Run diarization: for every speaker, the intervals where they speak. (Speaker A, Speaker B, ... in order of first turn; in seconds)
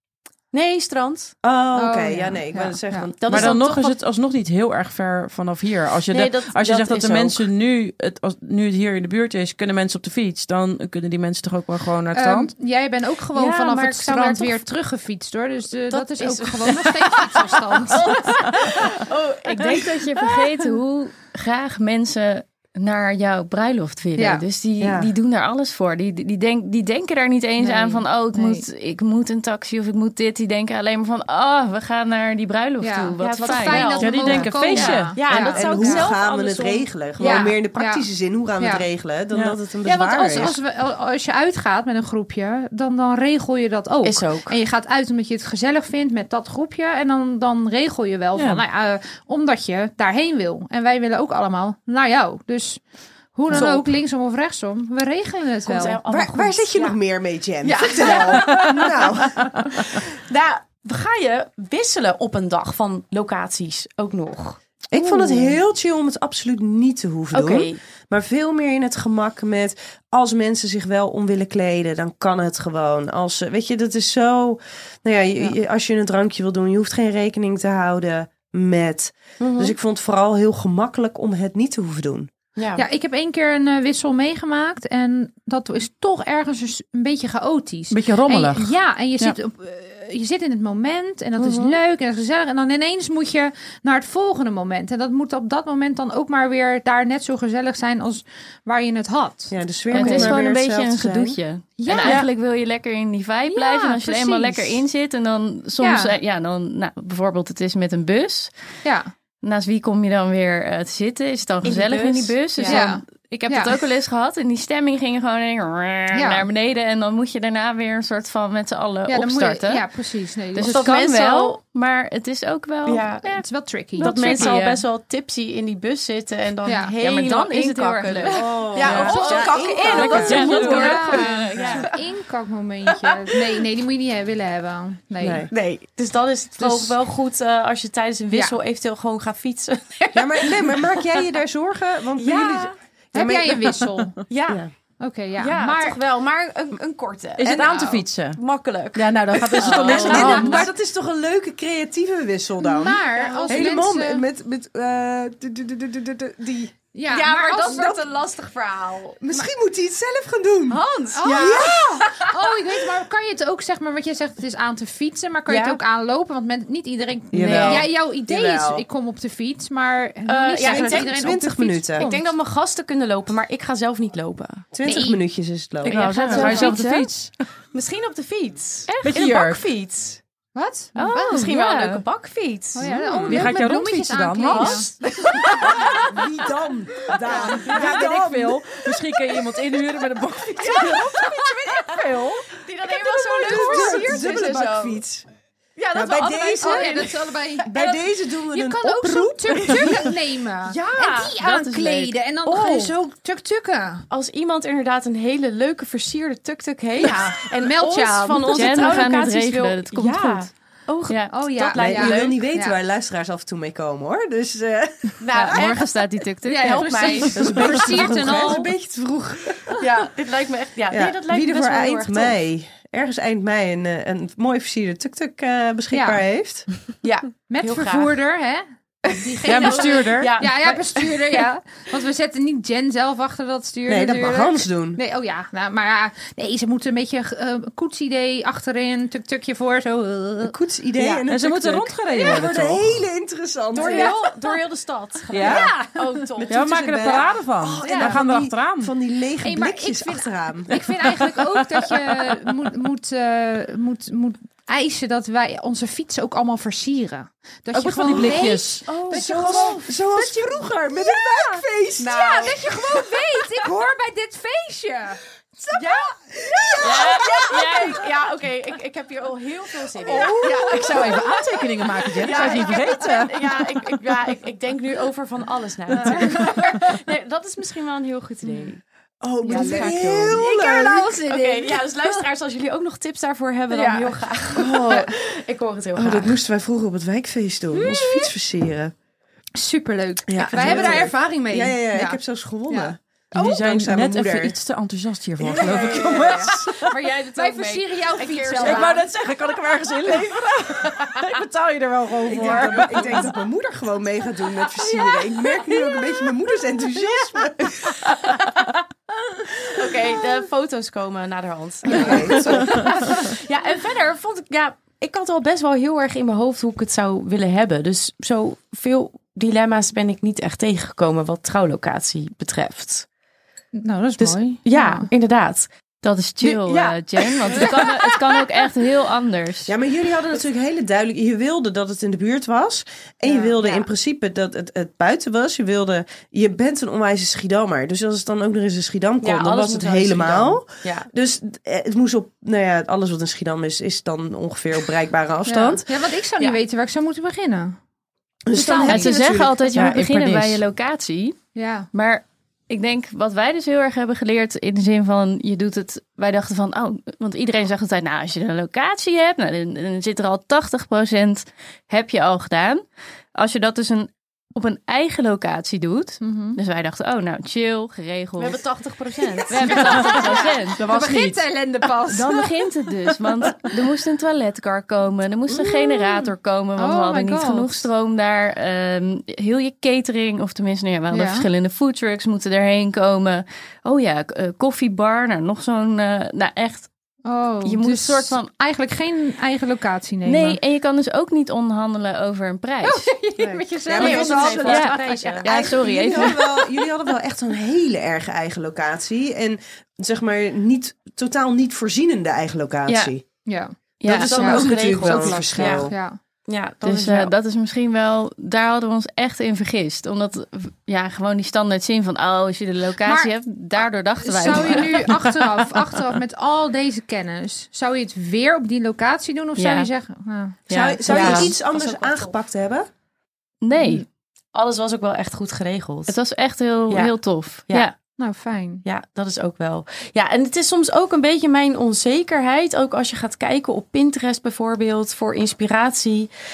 Speaker A: 0.5-1.4, 3.2-4.0, 6.1-7.5, 13.3-14.6, 15.9-20.6, 33.2-34.4, 35.1-37.5, 44.0-44.6, 53.5-53.9, 55.6-57.0, 57.6-65.6, 67.3-67.8, 79.4-79.8, 82.6-82.9, 100.0-100.4, 102.0-102.3, 111.6-112.8, 120.6-121.6, 122.9-123.3, 124.0-131.9, 132.9-133.6, 135.5-141.2, 142.2-142.8, 144.3-144.6, 145.4-150.7, 153.1-153.8, 157.1-159.2, 160.7-162.3, 165.5-165.8, 167.4-167.9, 170.3-171.4, 172.0-174.7, 175.8-176.8, 177.7-180.2, 181.3-182.9, 184.5-186.2, 187.3-188.1, 190.6-191.8, 192.6-195.0, 195.8-197.3, 200.6-202.9, 204.1-212.4, 215.2-215.9, 216.6-218.5, 219.8-222.4, 227.0-228.2, 229.1-231.5, 243.7-247.2, 258.9-259.8, 265.8-266.1, 266.8-271.4, 272.0-278.8, 279.5-286.4, 295.7-296.1, 296.8-299.0, 300.1-301.4, 302.3-303.3, 304.7-306.3, 307.8-308.7, 309.6-323.1, 324.2-325.7, 326.4-328.5, 339.2-341.1, 349.7-350.6, 368.4-370.2, 393.9-395.6, 404.4-405.9, 406.5-407.3, 421.1-422.3, 424.5-426.1, 428.8-436.3
Speaker B: 1.4-3.6, 24.8-25.1, 35.3-40.6, 56.0-59.7, 64.9-82.3, 99.5-101.4, 128.3-130.6, 135.2-135.5, 140.1-143.9, 147.5-147.8, 149.8-156.7, 159.2-162.0, 167.3-168.8, 170.6-172.1, 174.7-176.0, 182.8-183.5, 185.6-188.7, 193.0-195.2, 195.9-200.1, 211.8-215.2, 217.3-219.8, 220.9-226.7, 233.9-235.0, 240.4-244.2, 246.5-251.3, 259.1-263.2, 265.6-267.7, 270.0-271.1, 279.2-281.2, 284.5-285.1, 286.0-288.9, 290.3-294.6, 295.4-296.6, 302.3-308.1, 311.9-312.9, 329.7-345.9, 348.5-349.6, 393.4-403.2, 404.1-405.9, 420.7-422.9
Speaker C: 1.8-3.1, 12.1-18.4, 24.2-24.4, 27.6-28.6, 32.8-36.1, 37.2-38.0, 39.8-52.8, 53.4-56.0, 82.8-99.5, 101.8-102.2, 103.5-104.8, 105.8-106.1, 108.8-109.1, 112.7-113.7, 116.1-116.5, 119.1-120.8, 123.3-124.5, 126.7-126.9, 128.9-135.5, 136.6-136.9, 143.1-144.2, 145.0-146.0, 147.7-148.0, 149.6-150.7, 152.6-154.2, 156.9-158.0, 161.1-172.3, 174.9-175.2, 176.3-176.8, 180.6-181.2, 182.8-184.9, 193.5-194.2, 196.6-204.1, 207.0-208.7, 211.3-212.8, 216.5-218.7, 225.9-226.2, 227.5-241.2, 242.1-242.5, 243.8-244.2, 245.4-246.4, 247.8-248.2, 249.4-265.2, 270.8-271.1, 272.3-272.8, 279.4-280.4, 281.2-281.8, 283.7-284.1, 289.6-292.2, 295.6-296.5, 297.1-299.0, 311.9-313.3, 323.7-325.1, 333.3-333.7, 345.5-347.8, 348.5-349.2, 351.6-351.9, 366.2-366.6, 369.5-372.7, 375.5-377.9, 381.1-381.5, 387.3-390.6, 392.8-395.4, 403.5-406.2, 413.1-413.3, 414.2-420.6, 423.8-424.0, 428.2-428.8
Speaker D: 3.2-12.5, 34.0-35.2, 48.4-48.6, 87.9-89.4, 128.8-131.7, 147.4-148.4, 148.9-150.6, 175.9-177.3, 179.0-179.6, 182.8-184.9, 187.5-192.6, 229.4-230.3, 241.3-243.0, 245.3-245.7, 246.5-248.9, 257.7-259.1, 270.1-274.0, 290.3-291.1, 293.4-296.9, 298.6-303.3, 349.8-350.5, 369.9-371.4
Speaker E: 19.5-35.6, 99.9-108.5, 109.4-119.8, 120.5-123.5, 124.0-124.8, 127.0-129.1, 130.0-131.9, 175.8-177.1, 178.9-179.3, 181.0-182.0, 208.5-210.5, 211.1-211.3, 215.3-217.3, 266.8-268.0, 326.0-329.7, 348.7-351.4, 351.9-362.8, 363.4-368.6, 369.5-370.8, 372.1-386.9, 387.6-388.5, 390.2-393.1, 394.7-396.4, 402.9-403.1, 404.0-404.7, 406.8-415.1, 419.6-419.9, 420.7-421.5, 423.6-424.1, 426.1-427.9